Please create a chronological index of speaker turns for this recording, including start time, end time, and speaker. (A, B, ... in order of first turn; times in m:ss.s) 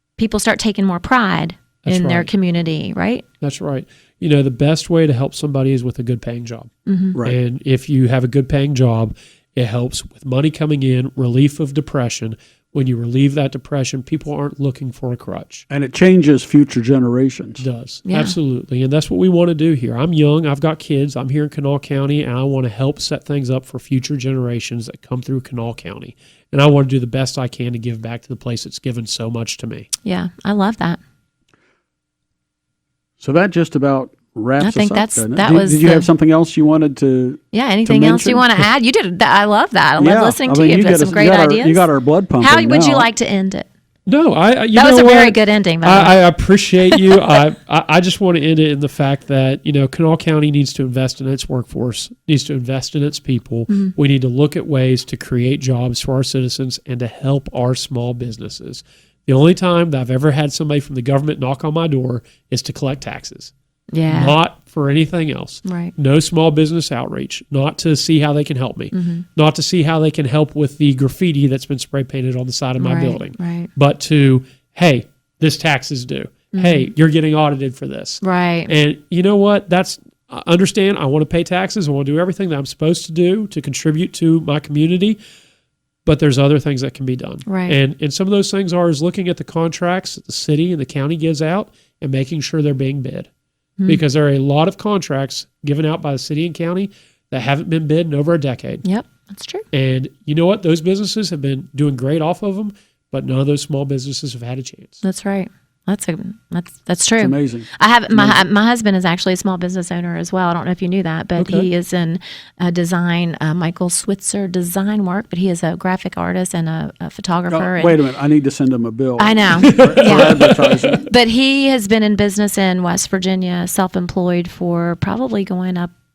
0:00.2-0:03.2 A
0:01.8-0:02.3 B
0:03.4-0:06.7 B
0:06.9-0:07.2 A
0:07.2-0:15.6 B
0:15.7-0:17.6 C
0:17.6-0:29.9 B
0:18.1-0:18.4 A
0:30.0-0:31.0 A
0:33.2-0:38.5 C
0:34.6-0:36.1 A
0:37.5-0:43.7 A
0:40.0-0:43.1 C
0:44.0-1:03.5 B
0:44.7-0:46.1 A
1:03.9-1:04.4 A
1:04.1-1:25.2 B
1:05.6-1:05.9 A
1:08.9-1:09.2 A
1:12.8-1:13.7 A
1:16.5-1:16.9 A
1:18.2-1:18.7 A
1:26.0-1:33.3 B
1:27.4-1:27.7 A
1:33.8-1:38.8 B
1:38.8-1:39.6 A
1:39.7-1:45.0 B
1:45.0-1:58.0 A
1:47.2-1:48.4 C
1:51.4-1:51.7 B
1:57.5-2:01.0 C
1:59.2-2:05.9 A
1:59.6-2:00.5 B